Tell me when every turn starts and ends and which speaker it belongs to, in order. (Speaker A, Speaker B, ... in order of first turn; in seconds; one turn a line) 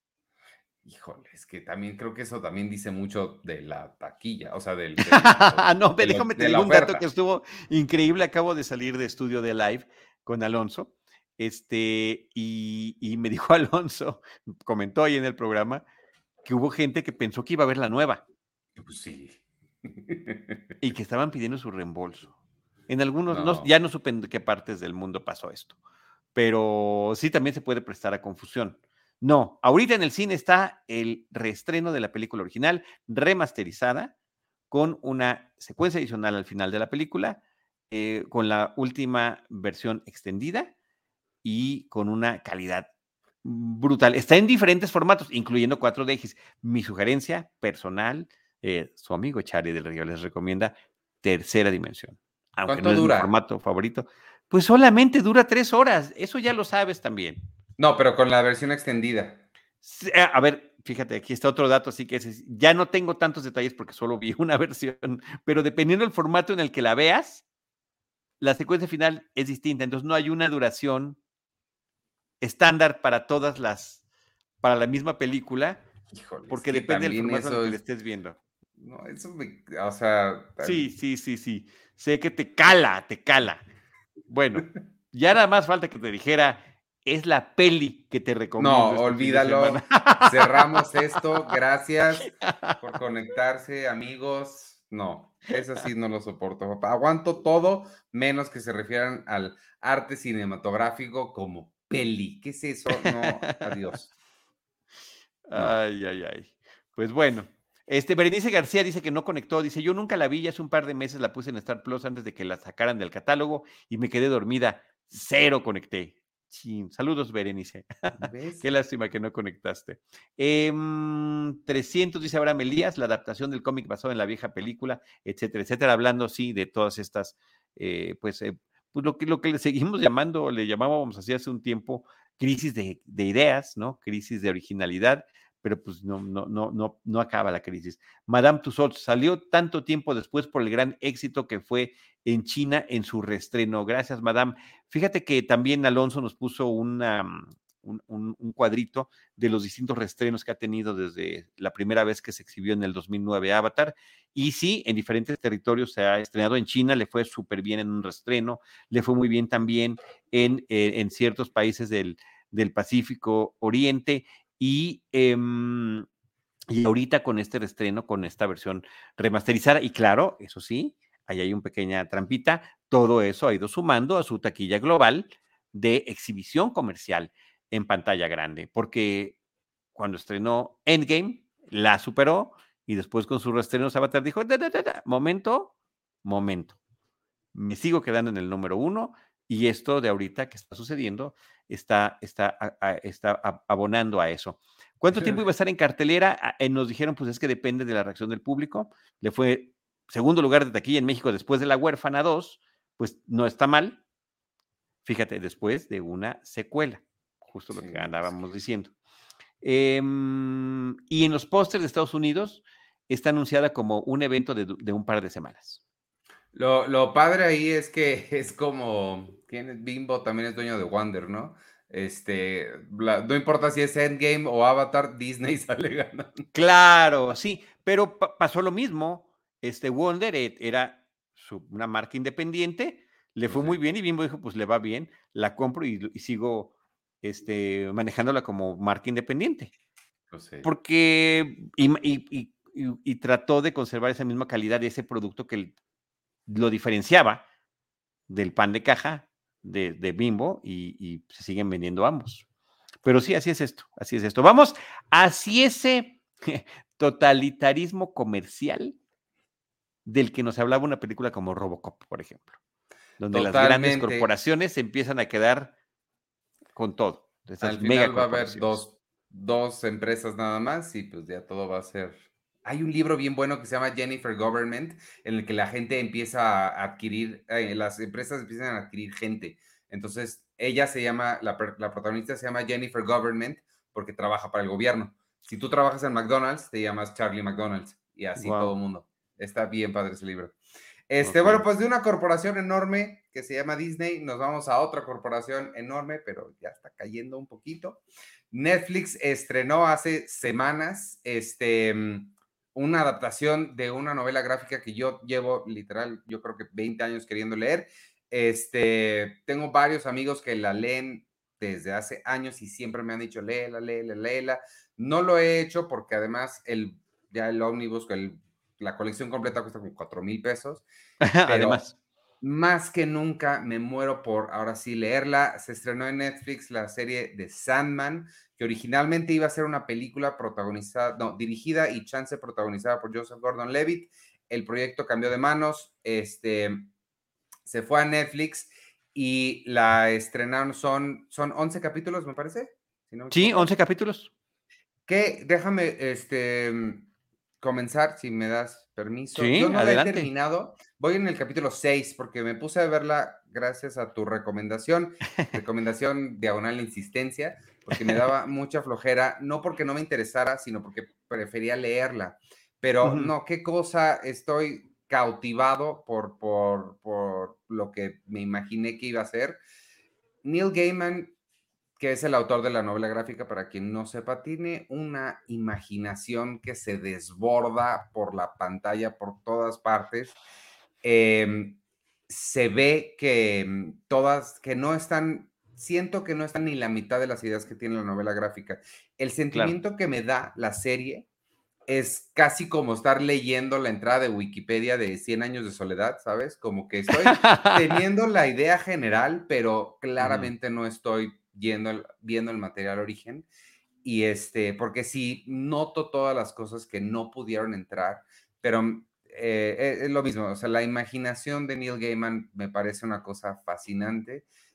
Speaker A: 0.8-7.0
Speaker B: 5.0-15.8
Speaker B: 16.4-18.2
Speaker A: 18.8-20.6
Speaker B: 20.8-22.3
Speaker B: 22.9-25.7
Speaker A: 23.3-23.7
Speaker B: 26.3-34.1
Speaker B: 34.7-40.7
Speaker B: 41.4-42.9
Speaker B: 43.4-57.4
Speaker A: 52.6-53.3
Speaker A: 57.8-59.4
Speaker B: 59.8-67.4
Speaker B: 68.4-71.2
Speaker B: 72.4-74.0
Speaker B: 74.6-75.8
Speaker A: 76.1-77.8
Speaker B: 76.5-78.4
Speaker A: 78.8-80.9
Speaker B: 80.6-83.6
Speaker B: 84.3-91.5
Speaker A: 88.6-104.1
Speaker B: 92.2-92.8
Speaker B: 103.0-103.7
Speaker B: 105.5-166.1
Speaker A: 118.2-118.6
Speaker B: 166.7-179.4
Speaker B: 179.9-186.8
Speaker B: 187.5-204.0
Speaker A: 195.1-195.4
Speaker B: 205.0-208.9
Speaker A: 207.7-208.3
Speaker B: 209.6-215.8
Speaker A: 216.5-226.5
Speaker B: 226.5-239.7
Speaker A: 233.5-233.8
Speaker A: 240.3-240.7
Speaker B: 240.6-245.7
Speaker B: 246.5-247.4
Speaker B: 248.3-252.4
Speaker B: 253.0-259.0
Speaker B: 260.1-262.6
Speaker B: 263.2-265.7
Speaker A: 263.3-264.3
Speaker B: 266.7-268.8
Speaker A: 267.6-290.6
Speaker B: 288.4-288.7
Speaker A: 291.1-320.8
Speaker B: 291.2-291.6
Speaker B: 321.2-321.9
Speaker A: 321.4-321.8
Speaker A: 322.4-336.9
Speaker A: 337.6-343.7
Speaker B: 343.3-344.3
Speaker A: 345.1-347.1
Speaker A: 347.6-369.6
Speaker B: 349.3-350.3
Speaker B: 363.0-363.3
Speaker A: 370.4-371.3
Speaker A: 372.0-380.4
Speaker A: 381.0-391.2
Speaker A: 391.9-403.5
Speaker B: 397.1-398.0
Speaker B: 400.2-400.5
Speaker A: 404.0-414.4